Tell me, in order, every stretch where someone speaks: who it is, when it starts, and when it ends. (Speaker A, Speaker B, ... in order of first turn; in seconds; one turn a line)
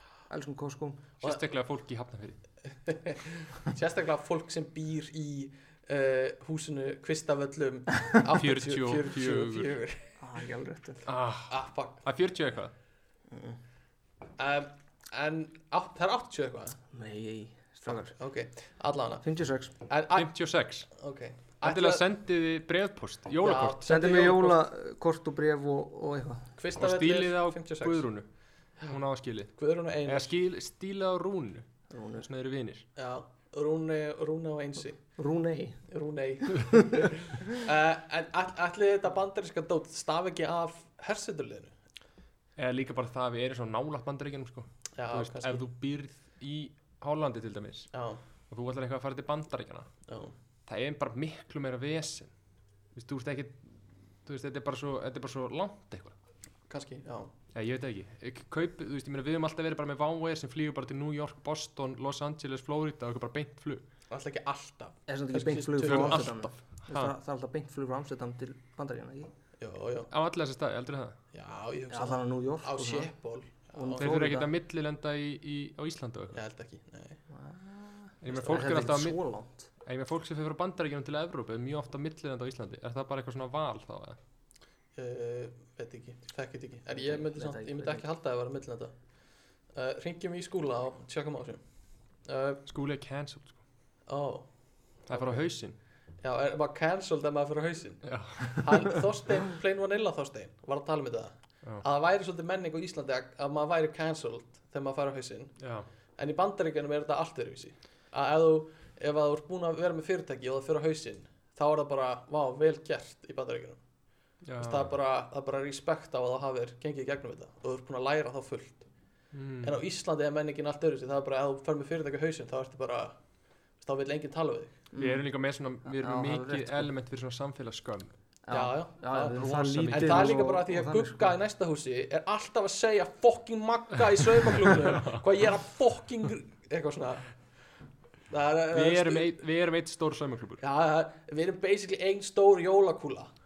Speaker A: 0.3-1.0
Speaker B: 1.2-2.4
Speaker C: 2.9-10.1
Speaker B: 8.3-9.8
Speaker A: 10.2-11.0
Speaker B: 11.1-12.7
Speaker C: 11.5-12.0
Speaker A: 13.3-13.6
Speaker C: 14.4-16.8
Speaker A: 16.9-18.1
Speaker C: 18.2-19.2
Speaker A: 19.2-19.7
Speaker C: 19.9-20.3
Speaker B: 20.1-20.9
Speaker C: 20.9-22.0
Speaker B: 21.6-23.8
Speaker C: 23.4-24.6
Speaker A: 23.9-26.5
Speaker C: 26.6-28.1
Speaker B: 26.8-28.3
Speaker B: 28.8-31.7
Speaker C: 29.6-30.3
Speaker A: 31.9-32.3
Speaker B: 32.2-32.9
Speaker C: 33.0-35.0
Speaker A: 35.2-35.8
Speaker C: 35.9-41.7
Speaker B: 42.6-47.9
Speaker C: 45.0-45.7
Speaker C: 47.9-48.2
Speaker B: 48.5-49.9
Speaker C: 50.1-50.3
Speaker B: 50.7-52.3
Speaker B: 53.0-53.6
Speaker B: 54.2-56.1
Speaker C: 56.7-57.3
Speaker B: 57.5-63.8
Speaker C: 64.1-66.3
Speaker A: 65.1-69.3
Speaker B: 65.8-67.1
Speaker C: 69.6-70.1
Speaker B: 70.1-71.2
Speaker C: 71.3-74.1
Speaker A: 71.9-73.1
Speaker A: 73.7-74.5
Speaker B: 74.0-76.4
Speaker C: 76.3-77.2
Speaker A: 77.3-79.7
Speaker B: 78.2-79.2
Speaker C: 78.3-78.6
Speaker B: 79.8-84.2
Speaker C: 85.0-88.9
Speaker A: 87.0-88.0
Speaker C: 89.7-91.6
Speaker C: 92.3-92.6
Speaker B: 92.7-93.6
Speaker C: 94.1-94.5
Speaker B: 95.1-95.8
Speaker C: 95.1-95.5
Speaker C: 96.2-105.6
Speaker B: 98.0-99.0
Speaker B: 105.6-105.9
Speaker C: 106.2-113.8
Speaker B: 114.4-114.9
Speaker C: 114.6-118.9
Speaker B: 119.3-119.8
Speaker C: 119.6-123.1
Speaker C: 123.8-124.8
Speaker A: 124.9-125.2
Speaker B: 125.0-128.1
Speaker A: 125.8-126.9
Speaker A: 128.5-131.3
Speaker C: 128.5-137.3
Speaker B: 129.3-130.4
Speaker B: 134.7-135.2
Speaker C: 138.3-139.3
Speaker B: 138.7-140.6
Speaker C: 140.6-143.3